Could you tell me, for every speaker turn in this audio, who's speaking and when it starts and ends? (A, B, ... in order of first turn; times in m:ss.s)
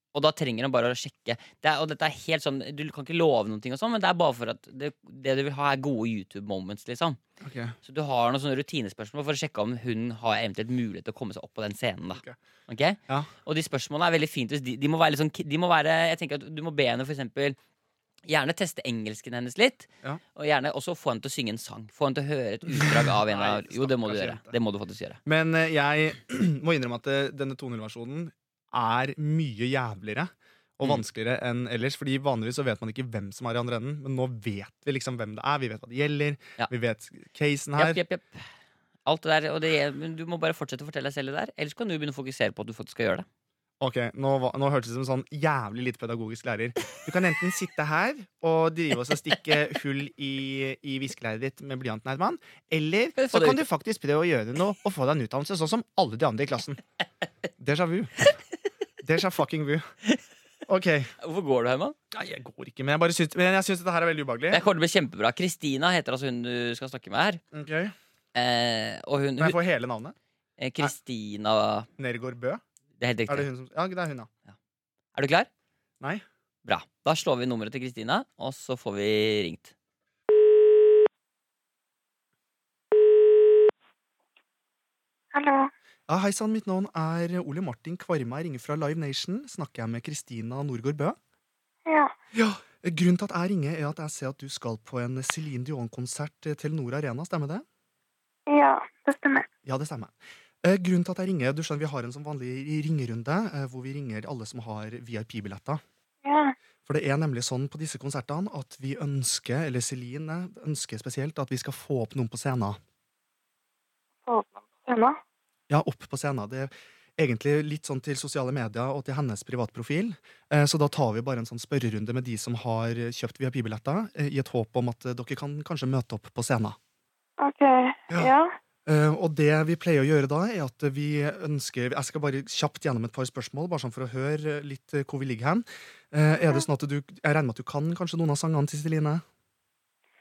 0:00.1-0:07.2 A
0:07.4-0:07.7 B
0:07.8-0:17.6 A
0:18.2-0:25.2 A
0:22.7-0:24.5 B
0:25.2-0:38.0 B
0:37.8-0:38.5 A
0:39.0-0:43.2 A
0:43.8-0:56.8 B
0:53.2-0:53.6 A
0:57.6-0:58.1 B
0:59.0-0:59.8 B
1:00.7-1:01.1 B
1:01.2-1:02.0 A
1:02.1-1:04.6 B
1:04.5-1:07.4 A
1:07.5-1:07.9 B
1:08.3-1:09.6 A
1:09.4-1:10.2 B
1:10.6-1:11.9 A
1:12.0-1:12.6 B
1:13.0-1:13.5 A
1:13.3-1:14.3 B
1:15.1-1:15.5 A
1:16.6-1:19.7 A
1:25.3-1:25.7 C
1:26.1-1:31.2 B
1:31.8-1:32.1 C
1:32.3-1:37.6 B
1:38.5-1:39.5 C
1:39.6-1:45.8 B
1:46.2-1:46.5 C
1:46.8-1:52.8 B
1:54.2-1:55.2 C
1:55.7-2:06.8 B
2:07.4-2:08.5 C
2:08.8-2:19.2 B